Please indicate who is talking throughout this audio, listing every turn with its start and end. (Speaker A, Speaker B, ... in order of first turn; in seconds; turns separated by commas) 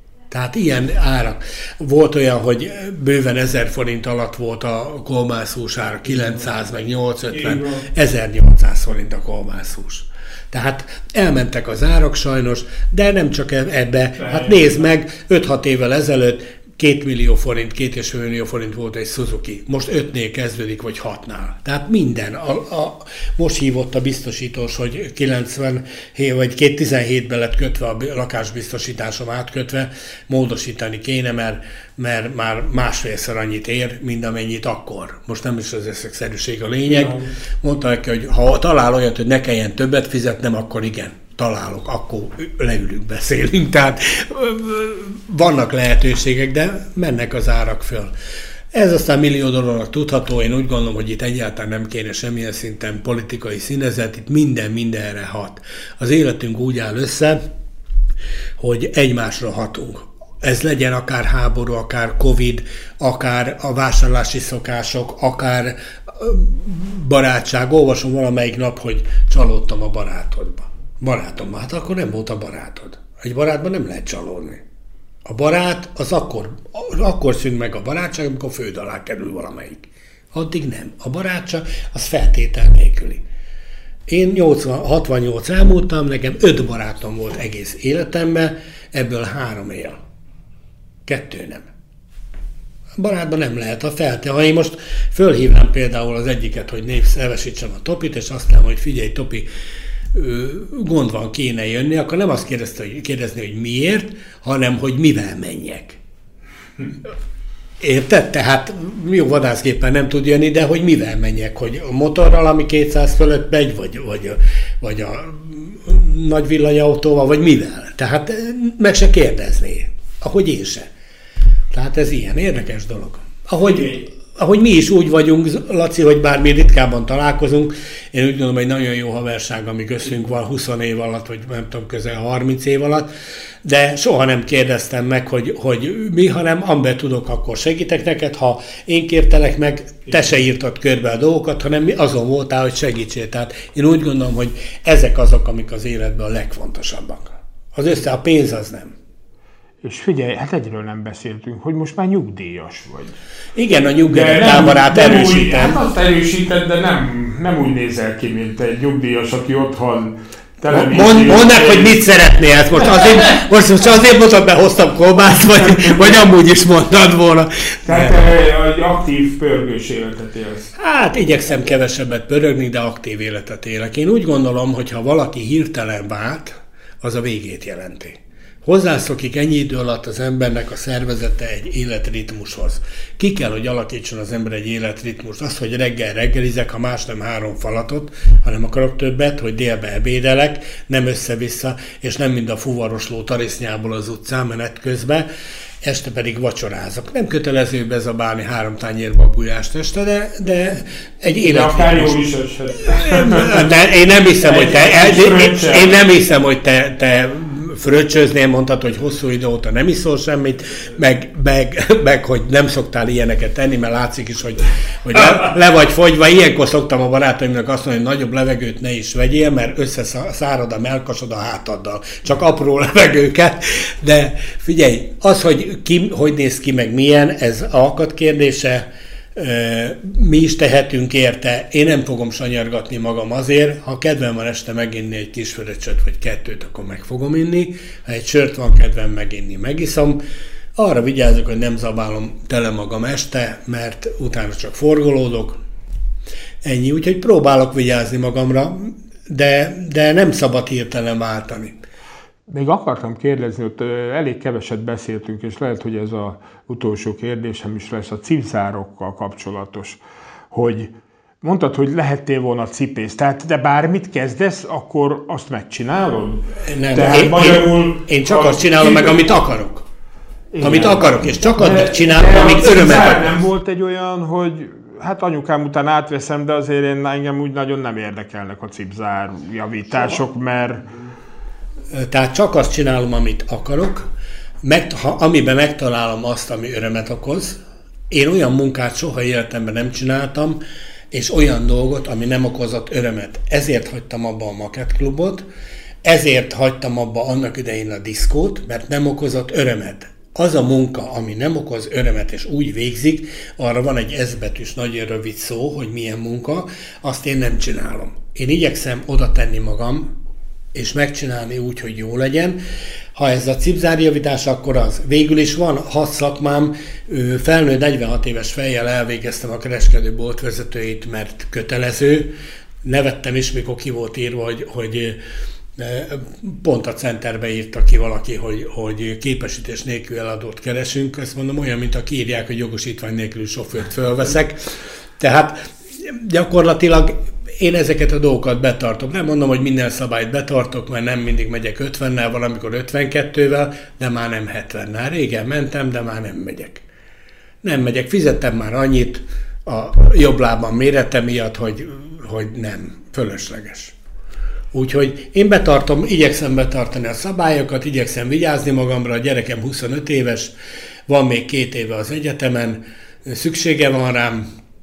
Speaker A: 0.3-48.1, Speaker B: 7.3-7.9, Speaker B: 14.2-14.8, Speaker B: 36.9-37.3, Speaker A: 48.7-57.4, Speaker A: 58.6-74.6, Speaker A: 75.2-83.2, Speaker A: 84.1-90.0, Speaker A: 91.1-91.7, Speaker A: 93.0-99.5, Speaker A: 100.1-106.0, Speaker A: 107.8-120.9, Speaker A: 121.7-133.1, Speaker A: 133.6-148.9, Speaker B: 149.8-153.2, Speaker A: 153.5-155.8, Speaker B: 154.1-162.0, Speaker A: 160.7-168.2, Speaker B: 165.8-166.1, Speaker B: 167.8-170.7, Speaker A: 170.8-195.2, Speaker A: 195.8-202.2, Speaker B: 201.3-203.7, Speaker A: 202.8-240.2, Speaker B: 204.4-205.9, Speaker A: 240.8-245.6, Speaker A: 246.6-251.7, Speaker B: 252.5-260.0, Speaker B: 260.5-269.2, Speaker A: 266.6-269.8, Speaker B: 270.5-280.8, Speaker A: 270.6-273.3, Speaker A: 281.9-284.1, Speaker A: 284.6-287.6, Speaker A: 288.1-290.6, Speaker A: 291.1-295.4, Speaker A: 296.0-310.1, Speaker A: 310.7-312.6, Speaker A: 313.1-322.3, Speaker A: 322.8-325.2, Speaker A: 325.8-334.6, Speaker A: 335.2-346.8, Speaker A: 347.6-353.9, Speaker A: 354.7-360.5, Speaker A: 361.1-364.4